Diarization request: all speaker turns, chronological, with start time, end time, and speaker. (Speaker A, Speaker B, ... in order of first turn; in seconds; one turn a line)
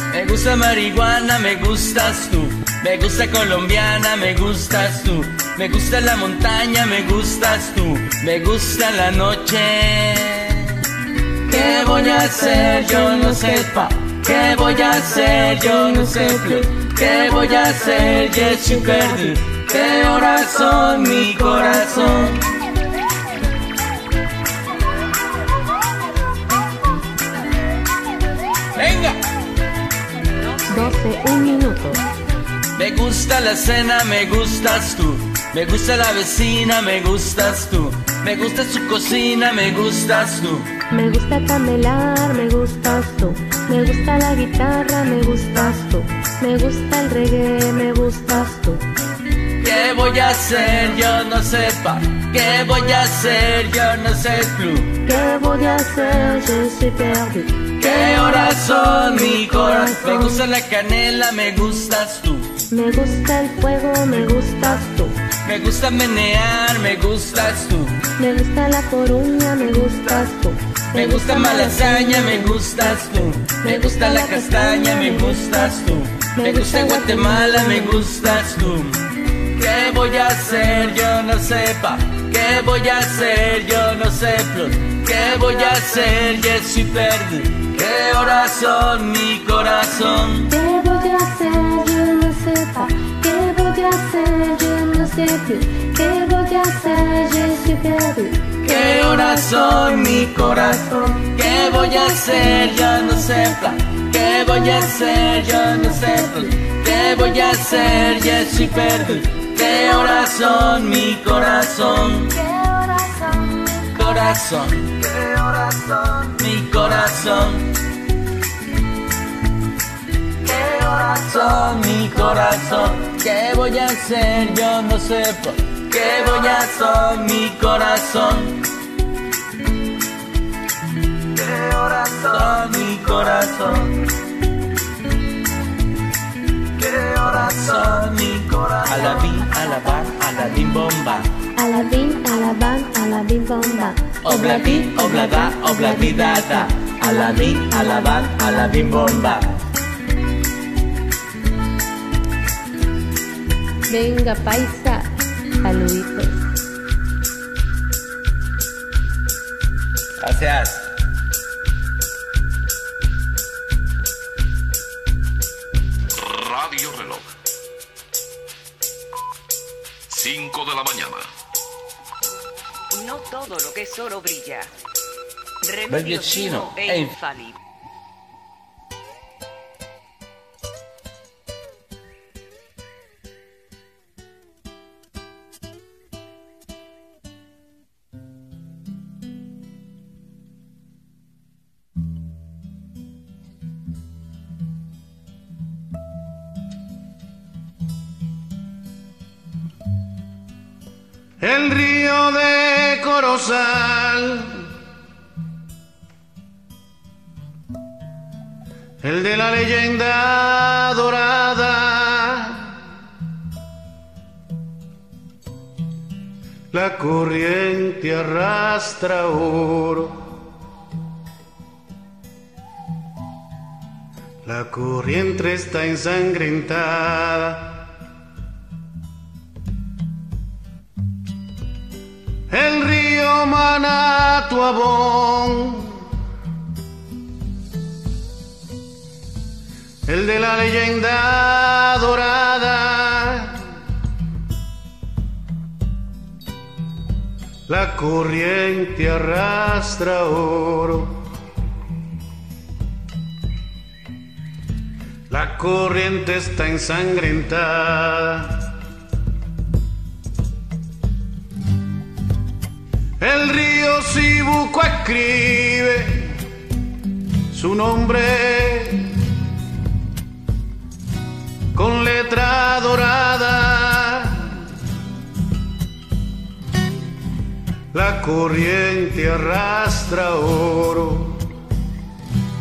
Speaker A: 0.1-10.7
Speaker A: 11.5-22.4
Speaker B: 12.4-13.6
Speaker B: 15.6-19.3
Speaker B: 21.1-22.2
Speaker A: 28.8-29.1
Speaker B: 30.7-32.0
Speaker A: 32.8-40.7
Speaker B: 40.9-48.8
Speaker A: 49.6-54.9
Speaker B: 55.0-60.4
Speaker A: 57.8-62.5
Speaker B: 62.7-65.2
Speaker A: 65.5-68.0
Speaker B: 68.2-72.6
Speaker A: 70.9-79.0
Speaker B: 73.6-75.7
Speaker B: 76.3-78.0
Speaker A: 79.6-90.5
Speaker B: 90.5-98.5
Speaker A: 98.6-112.3
Speaker B: 101.8-102.1
Speaker B: 104.6-106.5
Speaker B: 107.2-108.2
Speaker B: 112.3-113.9
Speaker A: 113.9-117.7
Speaker A: 120.4-128.6
Speaker A: 131.3-133.9
Speaker A: 136.8-141.3
Speaker B: 141.6-149.3
Speaker A: 144.2-149.5
Speaker B: 153.9-155.1
Speaker B: 155.6-156.3
Speaker A: 160.2-160.9
Speaker C: 166.3-167.2
Speaker C: 170.1-171.2
Speaker D: 172.9-174.7
Speaker D: 175.6-177.6
Speaker A: 175.9-177.1
Speaker E: 201.4-204.7
Speaker E: 209.0-212.8
Speaker E: 216.7-220.2
Speaker E: 224.4-227.8
Speaker E: 232.5-236.0
Speaker E: 240.1-243.6
Speaker E: 247.7-251.2
Speaker E: 255.3-258.6
Speaker E: 263.2-266.3
Speaker E: 267.5-269.1
Speaker E: 271.8-274.5
Speaker E: 277.9-281.4